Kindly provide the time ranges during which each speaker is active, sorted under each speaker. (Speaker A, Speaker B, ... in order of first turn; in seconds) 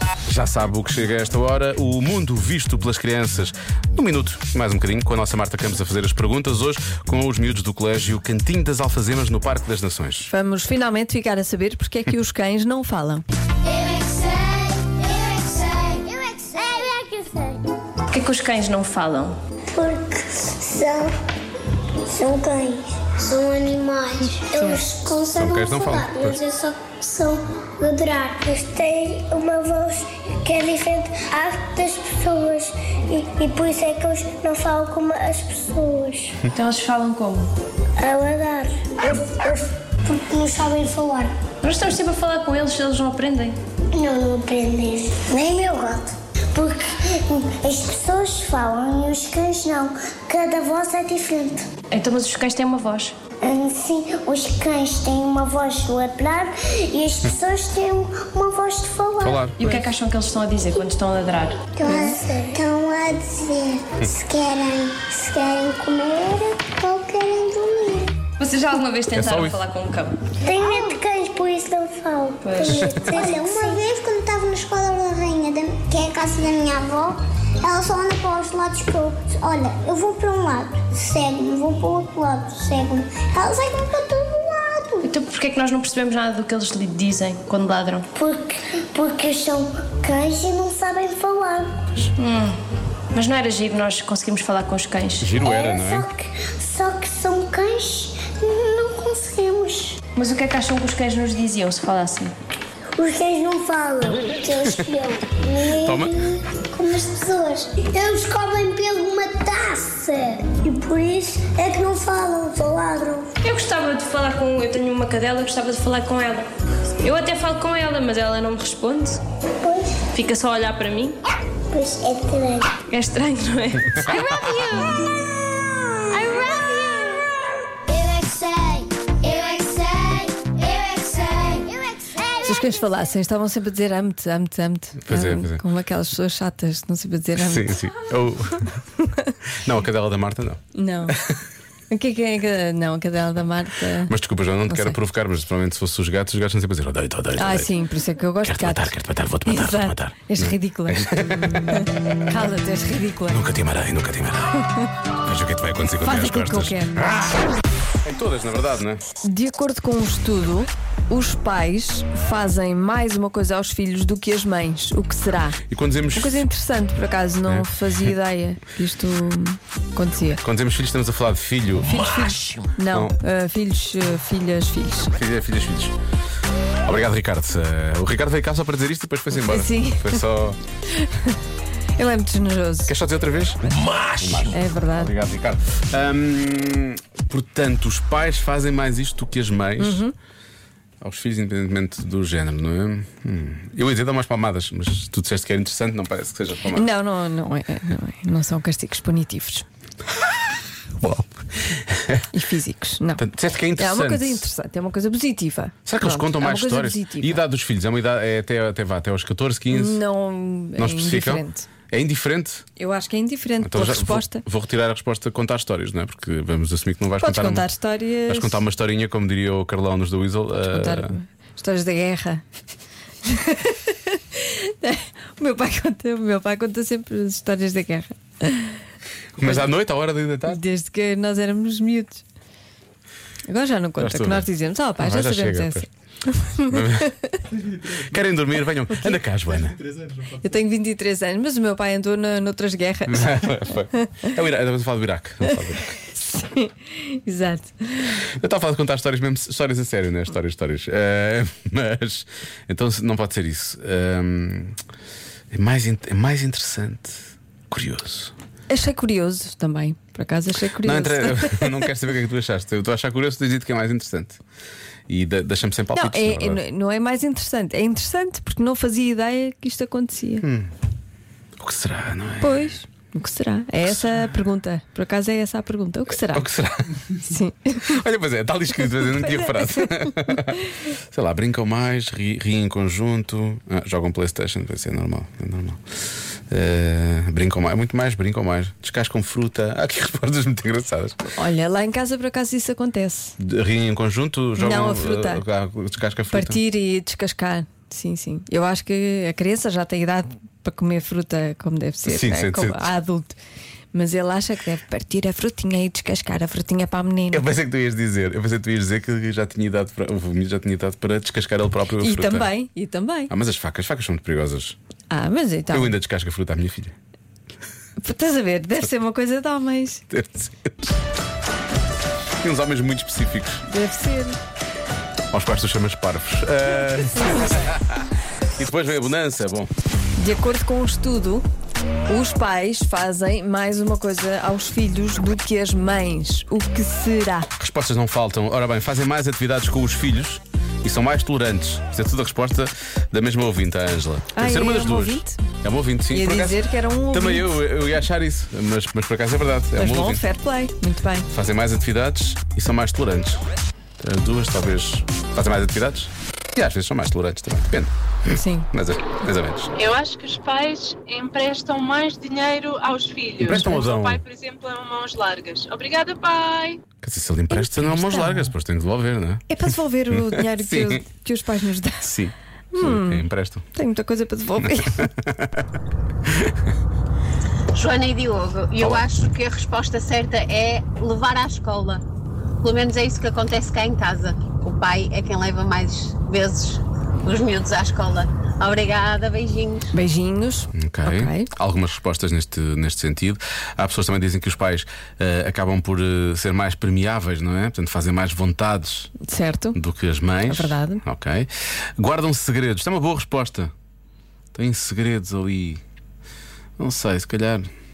Speaker A: 0.3-10.3, 25.3-26.4, 59.2-59.7, 69.1-69.6, 72.7-73.1, 95.2-96.1, 105.8-106.2, 135.0-135.6, 137.4-138.7, 139.6-141.4, 144.1-147.7, 148.4-151.9, 153.3-154.7, 155.2-157.4, 158.0-159.0, 165.7-166.5, 170.4-173.2, 175.1-175.9, 176.8-180.6, 182.9-190.0, 191.0-196.9, 201.0-202.3, 203.2-204.4, 205.9-210.0, 210.8-212.7, 213.6-217.7, 218.3-221.1, 229.4-230.6, 234.0-235.9, 236.7-237.1, 237.8-239.9, 243.1-246.0, 248.2-254.8, 255.5-258.3, 260.8-264.4, 265.1-266.6, 270.4-270.7, 271.6-272.7, 276.1-277.1, 277.8-291.2, 293.4-296.6, 302.1-302.9, 307.3-312.5, 313.3-314.8, 315.7-316.9, 320.1-321.0, 322.4-323.6, 325.3-329.7, 337.6-350.2, 351.3-353.5, 354.0-359.7, 363.4-364.2, 367.0-369.5, 370.1-371.0, 372.0-373.6, 374.6-376.6, 378.8-379.1, 390.7-399.1, 399.7-403.7, 404.6-405.8, 406.8-407.7
Speaker B: 10.3-13.2, 132.4-137.7, 139.0-139.3, 140.8-141.2, 141.9-144.1, 144.7-145.0, 147.4-148.9, 149.4-153.5, 156.0-157.2, 159.2-165.6, 166.2-170.4, 171.9-175.1, 179.3-180.2, 180.9-181.4, 182.0-182.9, 184.5-185.1, 189.8-190.1, 196.7-199.7, 202.3-203.2, 203.8-207.4, 209.7-211.7, 212.8-214.4, 217.2-218.6, 220.6-222.4, 223.2-228.8, 229.4-229.7, 230.5-232.2, 233.5-237.4, 238.9-239.2, 240.3-244.3, 246.1-248.2, 258.7-261.9, 265.9-270.5, 272.4-276.5, 277.2-278.0, 278.8-280.7, 291.2-293.4, 294.6-295.4, 296.3-303.4, 303.9-307.5, 312.0-313.3, 315.1-315.9, 318.0-320.0, 323.7-324.4, 330.2-331.4, 332.1-337.5, 344.4-345.4, 346.1-347.5, 349.8-351.3, 358.3-358.7, 367.5-368.5, 369.5-372.1, 372.7-375.1, 389.9-391.5, 399.2-399.8, 400.5-401.0
Speaker C: 13.7-17.6, 19.7-21.1, 22.1-36.4, 38.0-41.4, 43.9-51.7, 53.4-59.4, 61.7-68.2, 70.4-85.1, 88.2-91.9, 95.4-100.0, 102.9-113.3, 119.6-120.0, 121.7-122.7, 124.1-125.2, 126.0-127.3, 127.9-132.9
Speaker D: 18.1-19.4, 36.5-37.5, 41.6-43.6, 51.9-53.1, 59.6-62.2, 68.4-70.9, 72.4-73.8, 85.0-88.1, 92.2-92.6, 93.1-95.3, 100.2-102.3, 113.4-116.5, 117.0-119.2, 120.1-121.2, 122.9-124.2
Speaker E: 359.8-366.8
Speaker F: 377.7-382.0, 382.6-389.9